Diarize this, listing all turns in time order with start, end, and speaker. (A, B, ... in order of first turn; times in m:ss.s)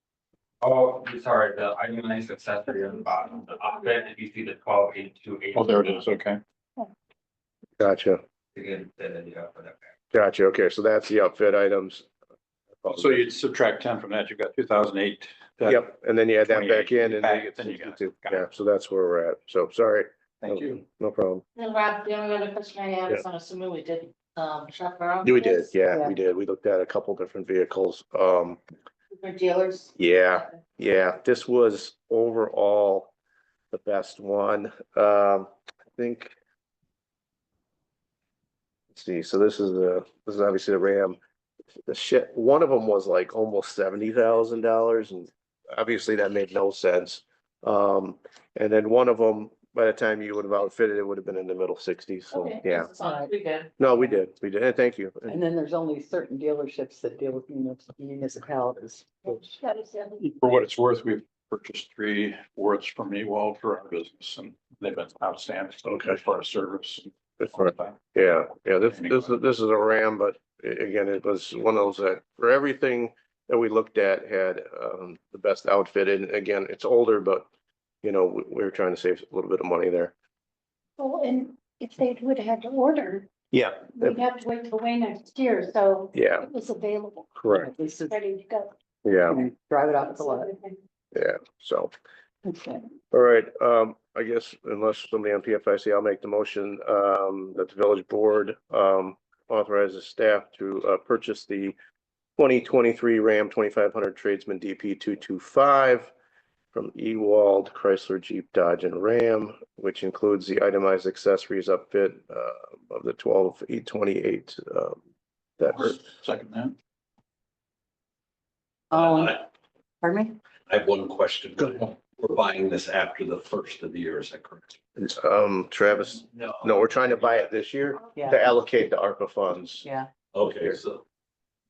0:00.6-0:06.0 A
0:05.5-0:06.4 B
0:07.8-0:08.2 C
0:08.6-0:09.9 A
0:10.1-0:12.1 C
0:12.8-0:13.3 C
0:12.9-0:15.8 B
0:15.6-0:21.4 C
0:16.5-0:18.5 B
0:20.4-0:20.8 B
0:21.6-0:25.7 D
0:25.2-0:28.6 C
0:29.1-0:29.8 D
0:30.0-0:33.1 C
0:33.7-0:36.3 C
0:38.9-0:41.2 C
0:41.9-0:52.9 C
0:53.0-0:53.3 E
0:53.8-0:55.4 C
0:55.3-0:59.5 E
0:59.4-1:00.3 F
1:00.2-1:07.9 B
1:05.9-1:06.2 C
1:07.4-1:17.5 C
1:08.9-1:09.4 B
1:18.0-1:20.1 C
1:21.0-1:23.3 F
1:23.5-1:24.2 C
1:23.9-1:27.4 F
1:26.1-1:26.5 C
1:27.4-1:27.7 C
1:27.5-1:28.2 E
1:28.1-1:28.7 F
1:29.0-1:29.4 C
1:29.3-1:30.5 E
1:30.0-1:30.8 F
1:31.1-1:31.9 C
1:32.4-1:32.8 E
1:33.1-1:41.8 C
1:42.4-1:46.1 C
1:46.7-1:55.0 C
1:55.6-1:56.0 C
1:55.7-1:56.8 B
1:58.9-1:59.4 E
1:59.0-1:59.4 G
2:00.0-2:00.4 E
2:00.7-2:04.8 G
2:05.0-2:09.9 C
2:06.3-2:07.5 G
2:08.2-2:08.4 E
2:09.8-2:10.1 E
2:10.3-2:11.0 G